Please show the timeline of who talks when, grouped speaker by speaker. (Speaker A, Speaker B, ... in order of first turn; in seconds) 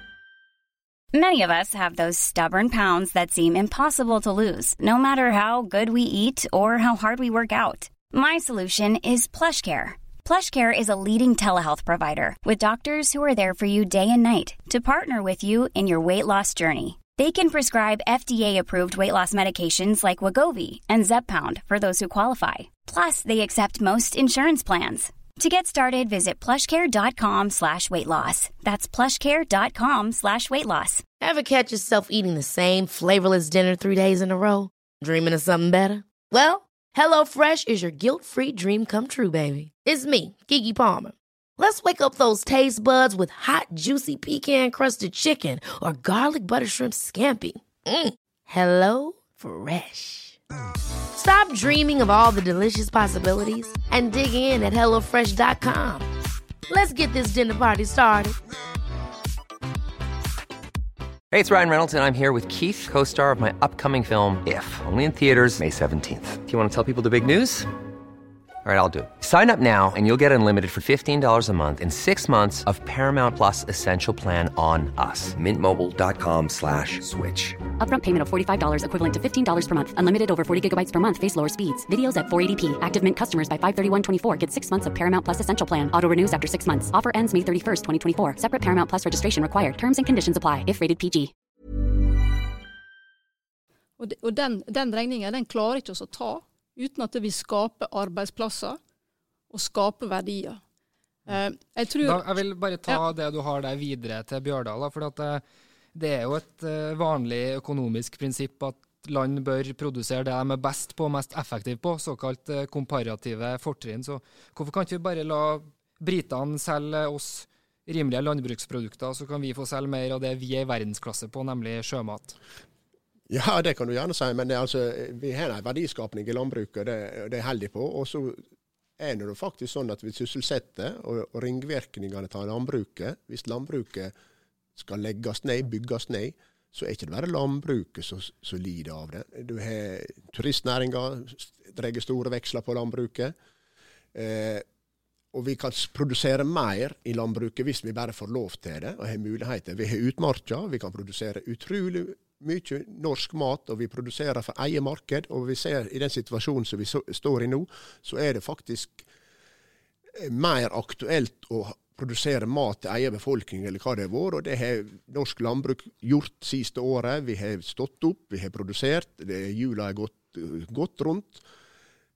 Speaker A: 1.1-31.0
Speaker B: 31.2-50.4, 51.1-56.1, 56.7-58.4
Speaker C: 61.3-67.7, 68.6-77.6
Speaker D: 77.8-91.3
Speaker E: 94.0-98.8, 99.5-100.6, 101.3-102.3
Speaker F: 102.0-105.4, 105.9-122.4
Speaker G: 123.3-128.4, 129.0-134.1, 134.8-143.3, 144.1-144.6, 145.3-159.1, 160.1-171.4